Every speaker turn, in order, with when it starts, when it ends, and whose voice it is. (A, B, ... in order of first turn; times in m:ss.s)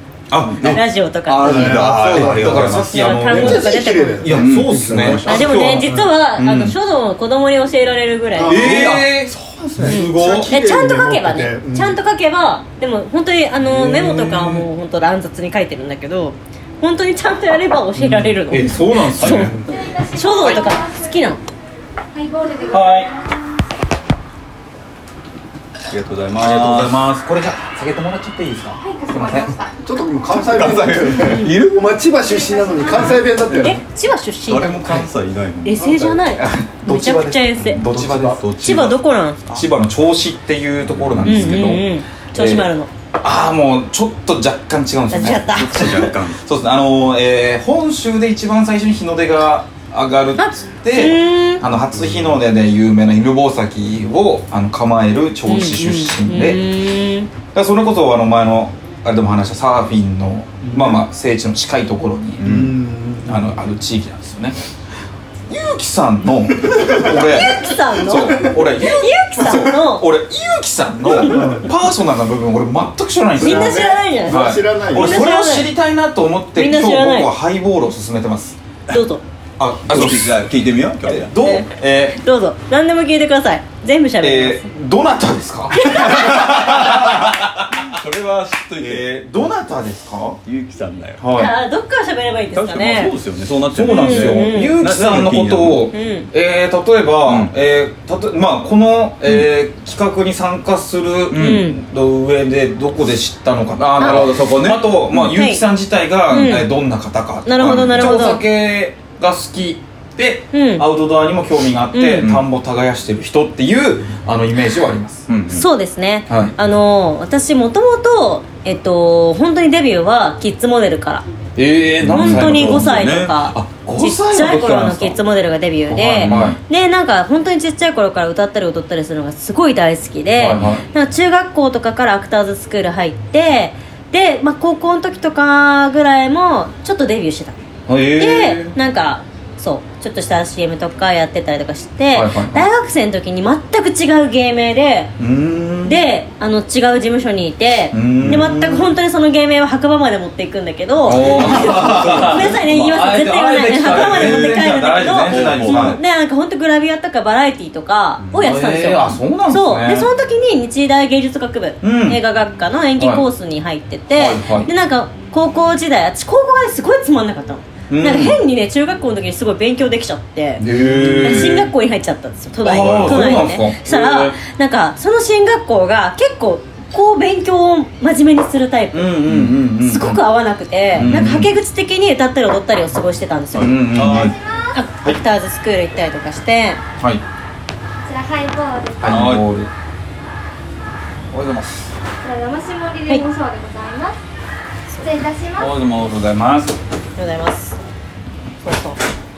0:00.3-0:00.8 A
0:00.4-0:02.9 B
0:00.6-0:01.9 C
0:01.4-0:06.1 D
0:01.4-0:06.7 A
0:02.7-0:04.4 C
0:04.3-0:05.7 B
0:05.2-0:08.6 C
0:08.3-0:12.0 D
0:08.4-0:10.5 A
0:08.5-0:09.9 B
0:09.8-0:21.4 C
0:13.7-0:14.6 A
0:18.0-0:19.6 A
0:19.2-0:19.7 B
0:19.7-0:21.0 E
0:22.1-0:23.4 E
0:22.7-0:23.1 A
0:25.9-0:27.0 B
0:26.4-0:29.5 A
0:28.8-0:29.7 E
0:29.8-0:33.8 D
0:30.4-0:31.4 B
0:31.2-0:31.5 C
0:32.3-0:33.2 E
0:33.5-0:34.8 C
0:34.5-0:36.1 B
0:34.5-0:35.1 A
0:35.6-0:37.8 C
0:35.8-0:38.4 A
0:37.6-0:39.7 B
0:37.9-0:38.4 D
0:38.6-0:39.4 C
0:39.5-0:42.7 A
0:40.8-0:41.7 B
0:41.2-0:42.9 C
0:43.2-0:56.6 A
0:45.1-0:46.1 C
0:45.5-0:46.4 B
0:50.4-0:51.6 C
0:55.5-0:57.3 C
0:57.5-1:02.7 A
1:00.6-1:01.0 D
1:02.4-1:02.7 B
1:02.4-1:03.5 D
1:03.2-1:04.6 A
1:05.5-1:18.6 A
1:07.1-1:10.0 C
1:11.1-1:11.6 C
1:11.1-1:11.7 D
1:13.4-1:15.2 D
1:13.4-1:15.7 C
1:16.6-1:17.3 C
1:18.9-1:19.2 C
1:19.6-1:20.5 A
1:19.9-1:21.3 B
1:21.0-1:22.2 A
1:21.4-1:24.6 C
1:24.2-1:27.6 A
1:25.7-1:26.4 C
1:25.8-1:29.0 B
1:28.8-1:30.4 A
1:30.4-1:31.2 B
1:31.2-1:31.5 A
1:31.3-1:33.1 C
1:32.5-1:35.8 B
1:33.7-1:55.3 A
1:33.8-1:34.8 C
1:35.9-1:36.3 C
1:37.2-1:37.5 B
1:41.3-1:41.6 B
1:41.3-1:41.8 C
1:43.8-1:45.3 B
1:44.0-1:44.3 C
1:45.3-1:45.6 C
1:46.3-1:46.7 C
1:47.4-1:48.4 C
1:50.5-1:50.8 C
1:51.9-1:52.2 C
1:52.2-1:52.4 B
1:55.3-1:55.7 B
1:55.5-2:01.2 C
1:56.3-1:56.5 A
2:01.6-2:05.2 A
2:02.0-2:03.5 B
2:02.0-2:17.6 C
2:05.9-2:06.6 A
2:06.2-2:06.6 B
2:10.4-2:10.8 A
2:17.9-2:18.7 A
2:18.2-2:25.1 C
2:22.1-2:22.6 A
2:25.2-2:26.0 A
2:25.8-2:50.6 C
2:27.9-2:28.8 A
2:28.2-2:28.5 B
2:31.0-2:36.0 A
2:31.0-2:32.8 B
2:33.8-2:34.6 B
2:35.3-2:36.0 B
2:38.4-2:40.1 A
2:41.8-2:42.2 A
2:43.0-2:43.2 A
2:44.1-2:44.7 A
2:47.9-2:48.4 A
2:50.6-2:51.7 A
2:50.9-2:51.5 B
2:51.2-2:59.2 C
2:52.6-2:54.4 A
2:52.8-2:53.2 B
2:58.9-3:00.2 A
2:59.3-2:59.6 B
2:59.8-3:04.0 C
3:00.9-3:01.5 A
3:03.6-3:04.4 B
3:03.6-3:04.4 A
3:04.0-3:04.8 E
3:04.7-3:06.8 C
3:08.0-3:09.3 E
3:09.0-3:09.7 A
3:09.0-3:09.4 B
3:11.3-3:11.9 A
3:12.2-3:14.2 E
3:15.0-3:15.7 E
3:15.6-3:16.8 A
3:17.2-3:17.8 C
3:18.6-3:19.0 C